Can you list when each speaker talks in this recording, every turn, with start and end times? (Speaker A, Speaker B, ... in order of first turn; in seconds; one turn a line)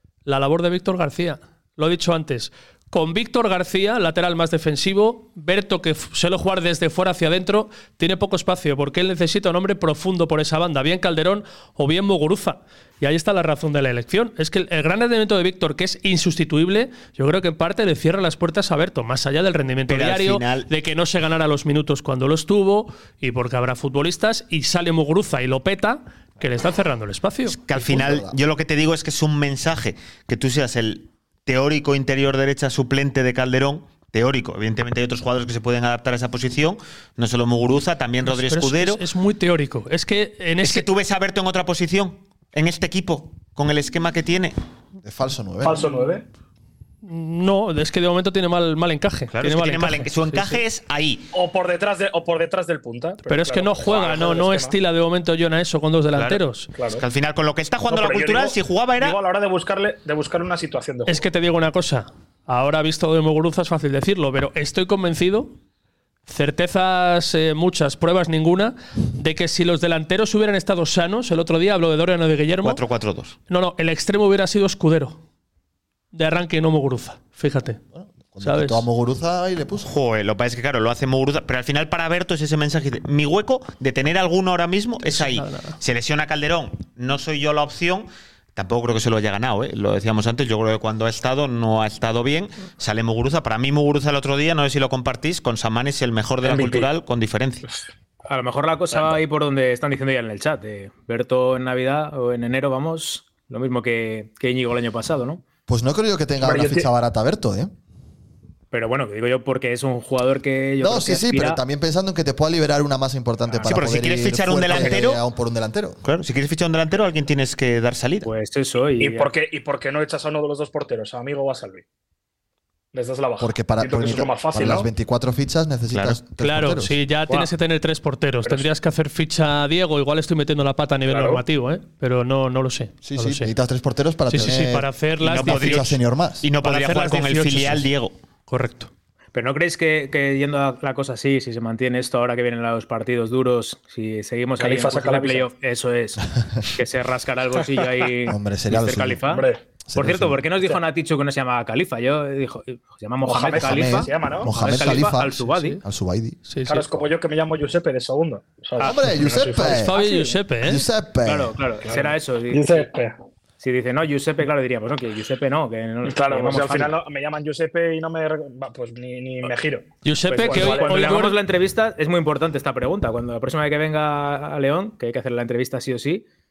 Speaker A: 0.2-27.6
Speaker B: 19.9-20.7
Speaker B: 27.5-39.0
Speaker C: 27.7-28.3
Speaker A: 38.2-40.9
Speaker B: 40.6-44.5
Speaker C: 45.0-45.8
Speaker D: 45.6-46.2
Speaker A: 47.0-50.6
Speaker B: 49.3-51.3
Speaker D: 51.3-54.7
Speaker A: 53.3-56.7
Speaker B: 56.1-59.2
Speaker D: 56.7-57.0
Speaker D: 57.9-61.2
Speaker A: 61.1-65.5
Speaker A: 66.3-72.8
Speaker B: 72.6-73.3
Speaker A: 73.5-75.2
Speaker A: 76.1-77.8
Speaker C: 77.9-79.9
Speaker A: 78.4-78.8
Speaker B: 79.8-97.6
Speaker A: 85.0-85.8
Speaker D: 96.4-96.9
Speaker E: 98.2-105.4
Speaker C: 105.7-107.7
Speaker D: 106.4-106.9
Speaker E: 108.7-111.6
Speaker C: 110.8-116.0
Speaker B: 113.7-115.2
Speaker B: 116.0-118.3
Speaker E: 118.2-119.3
Speaker D: 119.0-121.8
Speaker D: 122.9-124.9
Speaker C: 123.4-127.0
Speaker B: 125.9-126.2
Speaker A: 126.4-133.5
Speaker D: 131.1-131.4
Speaker C: 133.0-136.4
Speaker A: 134.3-136.0
Speaker B: 135.2-138.2
Speaker A: 136.6-137.9
Speaker A: 138.5-138.9
Speaker E: 139.3-155.8
Speaker D: 144.6-145.5
Speaker C: 148.3-149.2
Speaker D: 149.3-149.6
Speaker C: 149.9-150.4
Speaker D: 153.2-154.5
Speaker C: 153.6-156.4
Speaker A: 156.5-156.8
Speaker D: 156.7-160.4
Speaker C: 158.8-160.0
Speaker A: 159.6-160.8
Speaker C: 160.6-161.6
Speaker E: 161.2-162.9
Speaker D: 161.8-163.1
Speaker E: 163.6-166.9
Speaker D: 166.0-169.9
Speaker A: 170.0-171.4
Speaker E: 170.3-176.2
Speaker D: 170.4-171.3